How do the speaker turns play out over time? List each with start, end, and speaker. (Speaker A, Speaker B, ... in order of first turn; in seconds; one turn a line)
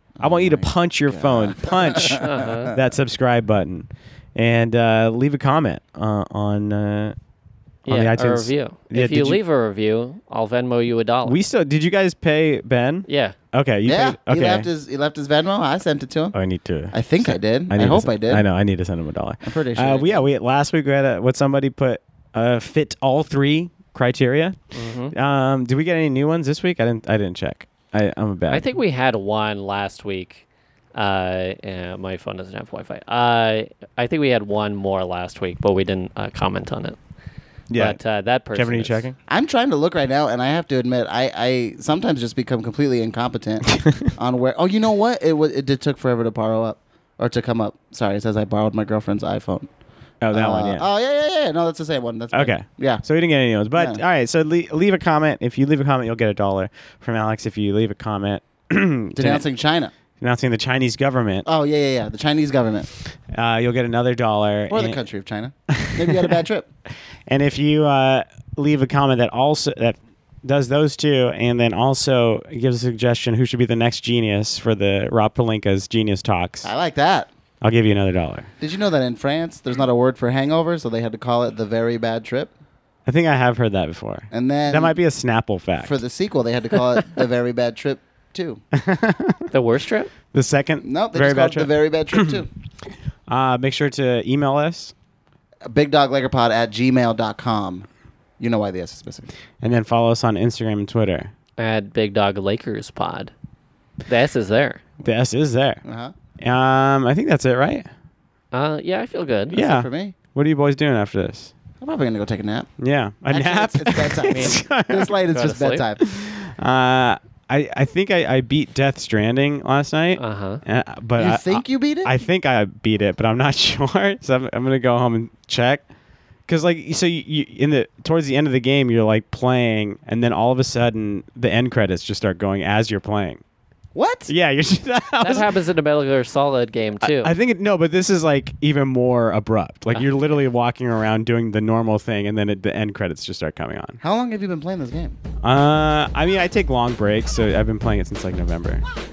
Speaker A: 0.2-2.7
Speaker B: 0.2-7.1
Speaker C: 2.2-2.7
Speaker B: 7.8-9.4
Speaker C: 7.8-11.4
Speaker B: 11.2-14.7
Speaker C: 13.1-13.3
Speaker A: 13.8-16.3
Speaker B: 16.3-24.6
Speaker A: 16.9-18.4
Speaker A: 19.4-20.2
Speaker C: 24.7-25.1
Speaker B: 25.1-28.7
Speaker C: 28.5-37.0
Speaker B: 37.7-38.0
Speaker C: 37.7-39.0
Speaker B: 38.5-39.1
Speaker A: 39.3-49.7
Speaker B: 43.7-44.1
Speaker B: 50.2-50.9
Speaker A: 50.3-53.0
Speaker B: 52.3-59.4
Speaker A: 53.7-54.0
Speaker A: 59.1-59.9
Speaker B: 60.2-61.5
Speaker A: 61.5-62.9
Speaker B: 63.3-65.0
Speaker A: 64.7-66.7
Speaker B: 65.7-66.4
Speaker B: 67.3-76.7
Speaker A: 76.6-77.3
Speaker B: 77.6-78.5
Speaker A: 78.6-82.5
Speaker B: 83.0-86.0
Speaker A: 84.3-85.0
Speaker A: 85.8-88.6
Speaker B: 88.7-89.5
Speaker C: 89.5-90.1
Speaker B: 90.3-92.4
Speaker A: 90.8-92.5
Speaker B: 93.3-94.9
Speaker A: 95.7-97.9
Speaker A: 98.4-99.3
Speaker B: 99.6-101.3
Speaker C: 101.6-103.3
Speaker C: 104.0-104.8
Speaker B: 105.0-105.8
Speaker A: 105.8-106.1
Speaker B: 106.4-107.9
Speaker C: 108.5-109.5
Speaker A: 109.5-110.1
Speaker B: 109.5-111.5
Speaker A: 111.8-112.7
Speaker B: 112.8-115.1
Speaker A: 113.3-116.0
Speaker C: 114.3-114.6
Speaker C: 115.3-115.8
Speaker B: 116.0-125.8
Speaker C: 120.2-120.6
Speaker A: 121.2-122.1
Speaker B: 126.5-133.4
Speaker A: 133.9-134.3
Speaker B: 134.3-135.5
Speaker C: 135.2-137.3
Speaker B: 137.0-144.0
Speaker A: 144.0-145.2
Speaker B: 145.4-148.8